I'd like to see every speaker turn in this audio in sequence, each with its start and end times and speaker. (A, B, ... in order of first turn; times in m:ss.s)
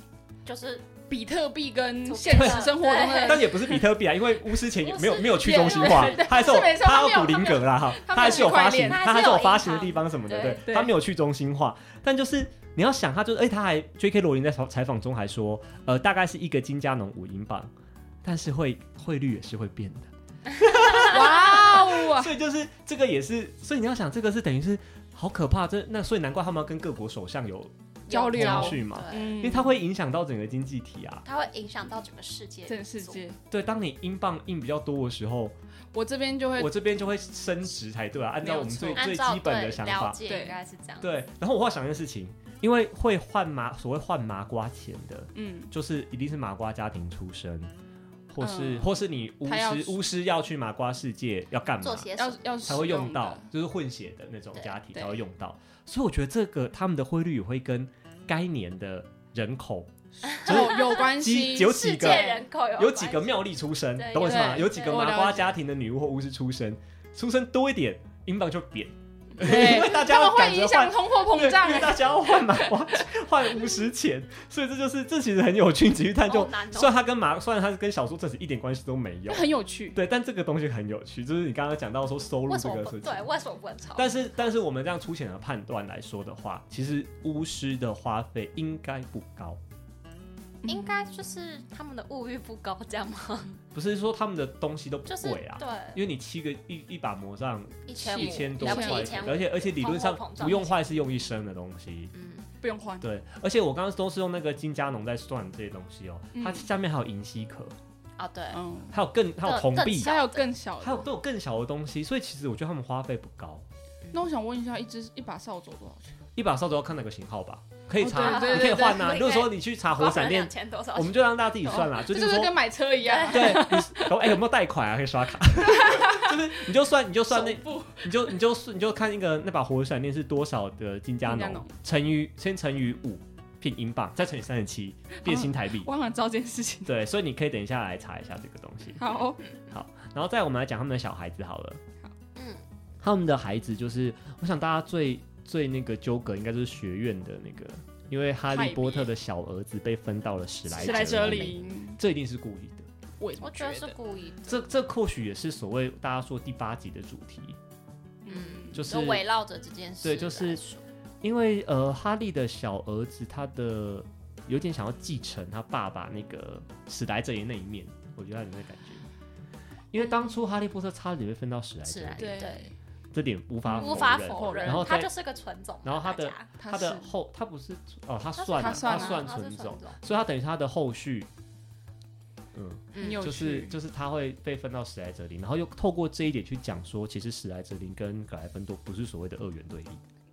0:00.4-0:00.8 A
0:01.1-0:03.9 B
0:02.0-0:03.5 A
0:02.3-0:02.7 C
0:03.2-0:17.7 C
0:04.8-0:06.6 A
0:05.4-0:09.1 B
0:08.2-0:10.6 A
0:10.6-0:10.9 B
0:18.2-0:27.8 C
0:20.7-0:21.1 A
0:20.9-0:22.4 B
0:28.1-0:29.4 A
0:28.1-0:29.8 B
0:28.3-0:31.2 C
0:31.2-0:33.2 A
0:32.7-0:33.4 B
0:33.5-0:35.6 C
0:35.9-0:36.8 B
0:36.6-0:40.2 C
0:38.4-0:39.0 B
0:38.9-0:41.1 A
0:40.3-0:40.6 B
0:41.0-0:47.7 C
0:45.4-0:45.7 B
0:48.3-0:52.1 C
0:48.4-0:50.1 B
0:51.8-0:52.6 A
0:52.2-0:53.5 B
0:52.6-0:59.9 C
0:54.9-0:55.2 B
1:00.2-1:02.4 B
1:00.2-1:05.1 A
1:00.4-1:23.3 C
1:04.2-1:05.6 B
1:09.4-1:13.0 B
1:16.3-1:17.0 A
1:19.3-1:20.0 B
1:22.5-1:24.5 A
1:24.0-1:29.6 C
1:30.6-1:31.0 B
1:30.7-1:33.6 A
1:33.7-1:42.1 C
1:35.1-1:36.0 A
1:37.9-1:40.8 A
1:38.0-1:39.4 B
1:42.1-1:42.5 A
1:42.6-1:43.1 B
1:43.0-1:47.7 C
1:46.4-1:46.7 B
1:48.2-1:48.6 A
1:48.5-1:48.9 B
1:48.9-1:50.1 C
1:49.4-1:50.4 A
1:49.9-1:51.1 B
1:50.8-1:53.7 C
1:54.1-1:56.2 B
1:56.4-2:02.6 C
1:58.0-1:59.2 B
1:58.2-2:01.2 A
2:01.6-2:04.3 B
2:03.0-2:03.7 A
2:03.3-2:15.9 C
2:05.6-2:06.4 B
2:07.3-2:08.2 B
2:11.2-2:11.8 B
2:15.2-2:17.0 B
2:16.9-2:19.1 C
2:19.0-2:19.4 B
2:19.7-2:21.8 C
2:22.4-2:22.6 A
2:23.0-2:32.9 C
2:28.5-2:29.1 B
2:30.7-2:31.6 A
2:30.7-2:32.0 B
2:33.2-2:34.0 B
2:33.4-2:34.7 A
2:34.5-2:37.6 C
2:38.2-2:38.8 B
2:38.3-2:40.8 A
2:38.7-2:39.3 C
2:40.0-2:40.6 C
2:41.2-2:49.1 C
2:49.9-2:52.5 C
2:51.8-2:52.7 A
2:52.2-2:52.7 B
2:53.1-2:55.1 C
2:53.7-2:55.0 B
2:53.7-2:56.5 A
2:55.8-3:01.3 C
2:56.6-2:57.1 B
2:58.4-3:00.0 A
2:58.6-2:59.2 B
3:02.5-3:10.0 C
3:02.9-3:03.2 A
3:03.0-3:03.8 B